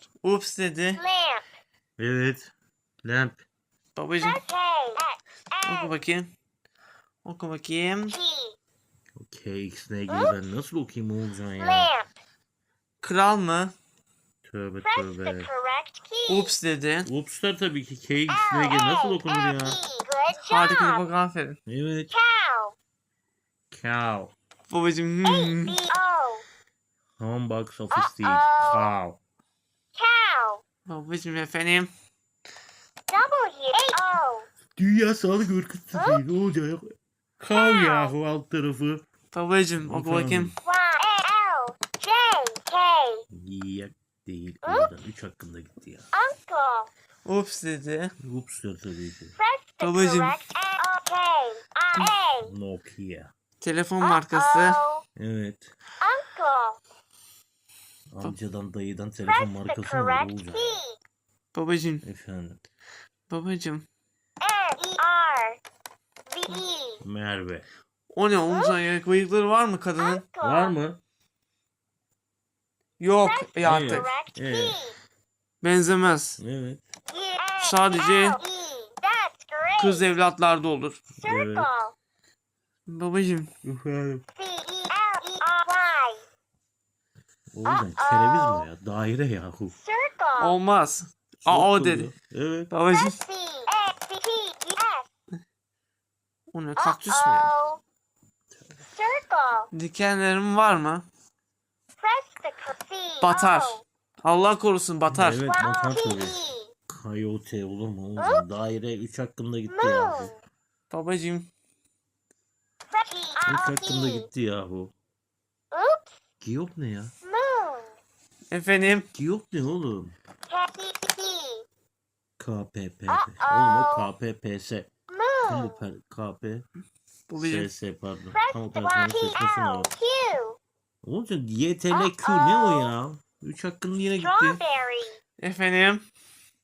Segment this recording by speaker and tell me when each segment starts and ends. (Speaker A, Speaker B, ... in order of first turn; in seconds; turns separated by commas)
Speaker A: 0.2-1.0, Speaker B: 1.0-1.5, Speaker C: 2.0-2.5, Speaker C: 3.0-3.4, Speaker A: 4.0-4.4, Speaker B: 4.2-5.9, Speaker A: 5.6-6.3, Speaker A: 7.2-8.2, Speaker B: 8.1-8.6, Speaker C: 9.2-11.9, Speaker B: 11.6-12.1, Speaker A: 13.0-13.7, Speaker C: 14.4-15.5, Speaker B: 14.8-16.5, Speaker A: 16.3-17.1, Speaker C: 17.1-19.8, Speaker B: 18.3-21.1, Speaker A: 20.4-21.6, Speaker C: 21.7-22.1, Speaker B: 22.1-22.7, Speaker C: 23.7-24.3, Speaker A: 24.7-25.8, Speaker B: 25.2-26.4, Speaker C: 27.2-29.2, Speaker B: 27.9-28.9, Speaker B: 29.9-30.6, Speaker A: 30.9-31.9, Speaker B: 33.1-34.5, Speaker C: 34.8-39.0, Speaker B: 36.0-36.2, Speaker B: 37.5-38.1, Speaker A: 39.3-40.5, Speaker C: 39.8-40.6, Speaker B: 40.6-43.2, Speaker C: 43.3-46.1, Speaker B: 44.6-44.9, Speaker B: 46.1-46.9, Speaker A: 47.2-48.1, Speaker C: 48.2-49.4, Speaker B: 49.4-52.5, Speaker A: 49.8-50.4, Speaker C: 52.4-53.3, Speaker A: 53.6-54.8, Speaker B: 54.0-55.0, Speaker C: 55.2-55.7, Speaker B: 56.0-56.8, Speaker C: 58.1-60.8, Speaker B: 59.3-61.0, Speaker A: 61.5-62.0, Speaker C: 62.0-62.6, Speaker A: 63.3-63.9, Speaker B: 64.4-65.6, Speaker B: 66.3-67.0, Speaker C: 67.0-67.7, Speaker A: 68.1-70.2, Speaker B: 68.5-68.7, Speaker B: 70.0-70.8, Speaker C: 70.4-71.0, Speaker A: 73.0-74.1, Speaker B: 73.2-75.0, Speaker C: 73.6-74.8, Speaker A: 75.6-76.4, Speaker C: 76.4-76.8, Speaker B: 77.1-80.0, Speaker A: 77.6-78.4, Speaker A: 79.8-81.0, Speaker B: 81.2-81.9, Speaker C: 81.2-81.7, Speaker A: 82.9-83.5, Speaker C: 83.6-84.2, Speaker B: 84.3-86.2, Speaker C: 87.5-89.8, Speaker B: 87.8-88.7, Speaker B: 89.8-90.6, Speaker A: 90.4-92.1, Speaker C: 91.5-92.7, Speaker A: 92.7-93.2, Speaker B: 92.9-95.1, Speaker A: 96.5-97.5, Speaker B: 96.8-97.8, Speaker B: 98.8-99.7, Speaker A: 99.7-101.0, Speaker B: 102.0-103.8, Speaker A: 103.2-105.5, Speaker C: 105.1-110.3, Speaker B: 105.4-106.7, Speaker B: 108.2-108.4, Speaker B: 109.7-110.4, Speaker A: 110.9-111.5, Speaker B: 112.9-114.3, Speaker C: 113.4-114.9, Speaker B: 115.7-116.1, Speaker C: 116.4-117.1, Speaker B: 117.2-118.0, Speaker A: 118.5-119.1, Speaker C: 119.1-120.1, Speaker B: 120.5-121.6, Speaker C: 122.4-124.9, Speaker B: 123.1-124.1, Speaker B: 125.1-125.8, Speaker C: 125.4-126.6, Speaker A: 127.3-127.7, Speaker C: 127.4-129.9, Speaker B: 128.3-130.6, Speaker C: 131.0-134.6, Speaker B: 131.9-132.9, Speaker B: 134.2-135.2, Speaker A: 135.4-136.0